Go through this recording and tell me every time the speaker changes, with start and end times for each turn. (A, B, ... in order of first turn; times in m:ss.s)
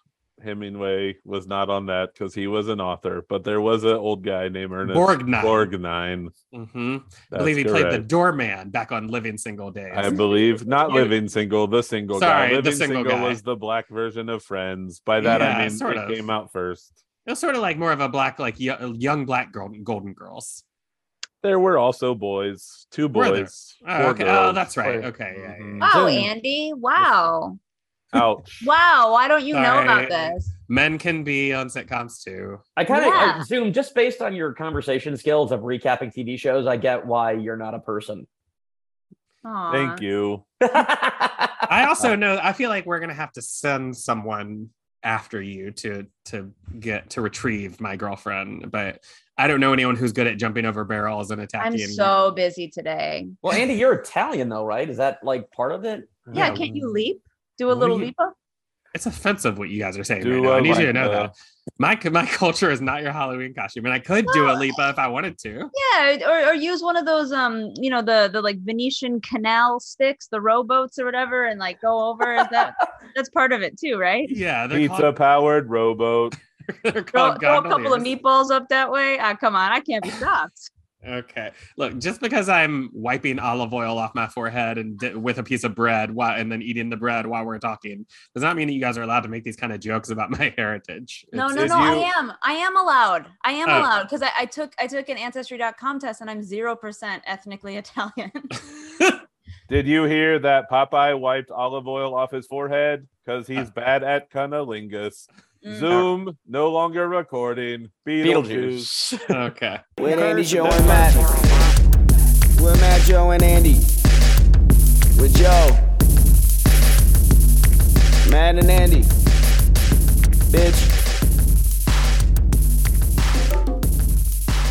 0:00.4-0:06.3 A
0:04.9-0:05.7 B
0:06.5-0:10.2 B
0:07.3-0:08.1 A
0:09.9-0:17.0 A
0:10.1-0:11.1 C
0:12.1-0:13.4 B
0:15.2-0:16.3 B
0:15.2-0:15.5 D
0:17.3-0:20.6 B
0:21.4-0:24.7 A
0:23.1-0:25.9 B
0:24.8-0:25.1 D
0:25.3-0:26.3 A
0:25.8-0:27.6 C
0:28.1-0:28.7 A
0:28.6-0:30.5 C
0:29.5-0:32.6 B
0:32.8-0:38.3 D
0:32.9-0:33.5 C
0:39.4-0:40.0 C
0:39.7-0:40.4 A
0:40.6-0:42.1 D
0:41.7-0:52.2 B
0:51.6-0:53.4 C
0:53.4-0:56.5 D
0:56.3-0:56.7 B
0:56.3-0:56.9 A
0:56.3-0:58.3 C
0:57.7-0:58.1 B
0:58.9-1:05.7 B
1:00.2-1:01.3 A
1:04.3-1:04.7 C
1:05.7-1:14.4 C
1:14.3-1:15.2 B
1:14.7-1:16.4 A
1:16.7-1:18.1 B
1:17.1-1:20.7 C
1:21.0-1:32.1 B
1:31.3-1:38.5 C
1:31.5-1:32.1 A
1:33.7-1:33.9 B
1:39.7-1:48.9 A
1:45.6-1:46.0 C
1:48.2-1:49.4 D
1:49.3-1:49.8 B
1:50.0-1:51.3 E
1:50.0-1:51.3 A
1:52.6-1:53.9 E
1:55.2-1:55.9 E
1:58.2-1:59.1 E
2:00.5-2:01.0 E